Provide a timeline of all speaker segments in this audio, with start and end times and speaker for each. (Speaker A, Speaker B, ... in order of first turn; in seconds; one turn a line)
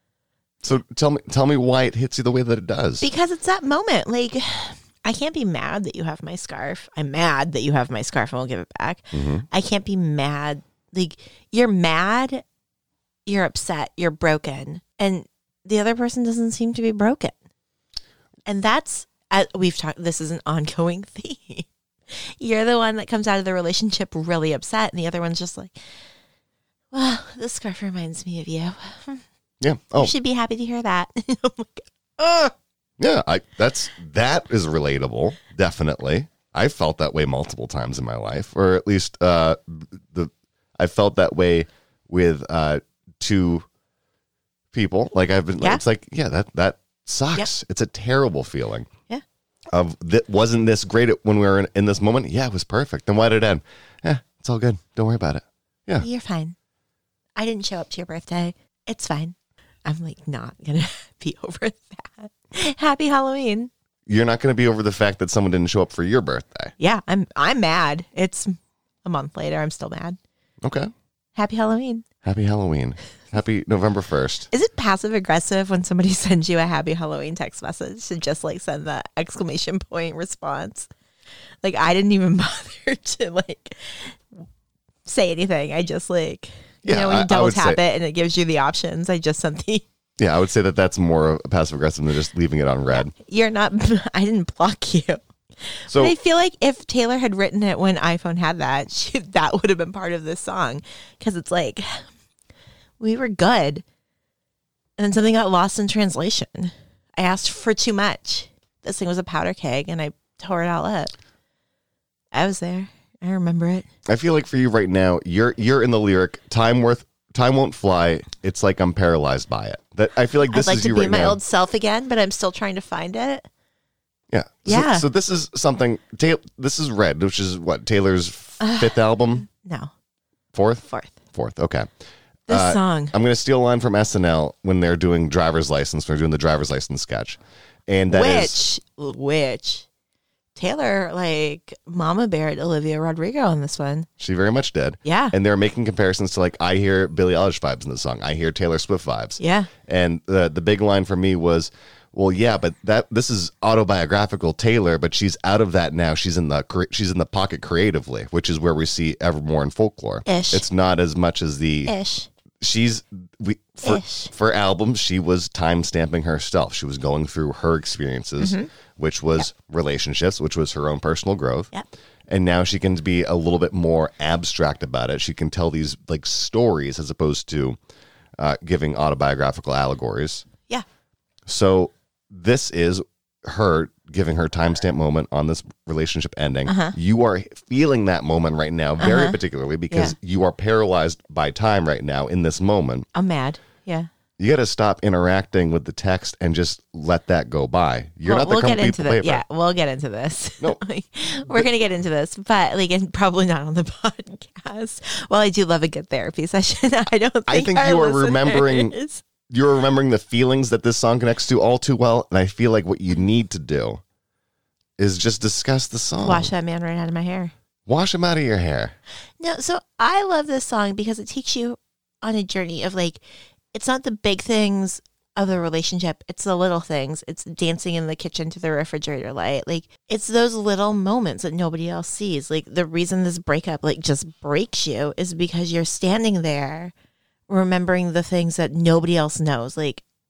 Speaker A: 0.6-3.1
Speaker B: 3.0-12.4
Speaker A: 9.1-9.5
Speaker B: 13.3-17.4
Speaker B: 18.5-25.8
Speaker B: 26.9-29.2
Speaker A: 29.6-30.1
Speaker B: 30.0-32.5
Speaker A: 33.0-43.7
Speaker A: 44.7-48.9
Speaker A: 49.7-56.1
Speaker B: 56.0-56.6
Speaker B: 57.4-63.7
Speaker A: 64.1-66.7
Speaker B: 66.8-70.2
Speaker A: 70.6-70.9
Speaker B: 71.4-72.0
Speaker A: 72.2-74.5
Speaker B: 74.5-80.9
Speaker B: 81.6-84.2
Speaker B: 85.1-89.8
Speaker A: 86.8-87.8
Speaker A: 90.2-93.1
Speaker B: 92.9-102.1
Speaker A: 95.9-96.2
Speaker B: 103.0-103.8
Speaker B: 105.0-111.1
Speaker B: 112.3-113.9
Speaker A: 114.1-121.4
Speaker B: 120.5-123.5
Speaker A: 124.3-129.5
Speaker B: 124.7-125.1
Speaker B: 128.6-129.9
Speaker A: 130.5-131.9
Speaker B: 130.9-131.2
Speaker B: 132.5-133.1
Speaker A: 132.5-138.6
Speaker B: 138.1-139.9
Speaker B: 140.6-144.1
Speaker A: 144.2-161.9
Speaker B: 145.0-145.3
Speaker B: 149.4-149.7
Speaker B: 160.3-160.6
Speaker B: 161.9-162.3
Speaker A: 162.6-171.7
Speaker B: 163.8-164.3
Speaker B: 168.4-168.7
Speaker A: 172.3-177.8
Speaker A: 178.4-180.5
Speaker A: 181.5-193.1
Speaker B: 186.7-186.9
Speaker B: 189.0-189.4
Speaker B: 189.9-190.2
Speaker B: 193.1-194.1
Speaker A: 194.4-199.4
Speaker B: 198.2-209.2
Speaker A: 207.5-208.9
Speaker A: 209.5-214.0
Speaker A: 215.0-216.5
Speaker B: 216.2-217.5
Speaker A: 217.9-218.9
Speaker B: 219.4-223.2
Speaker B: 223.7-236.9
Speaker B: 237.5-240.0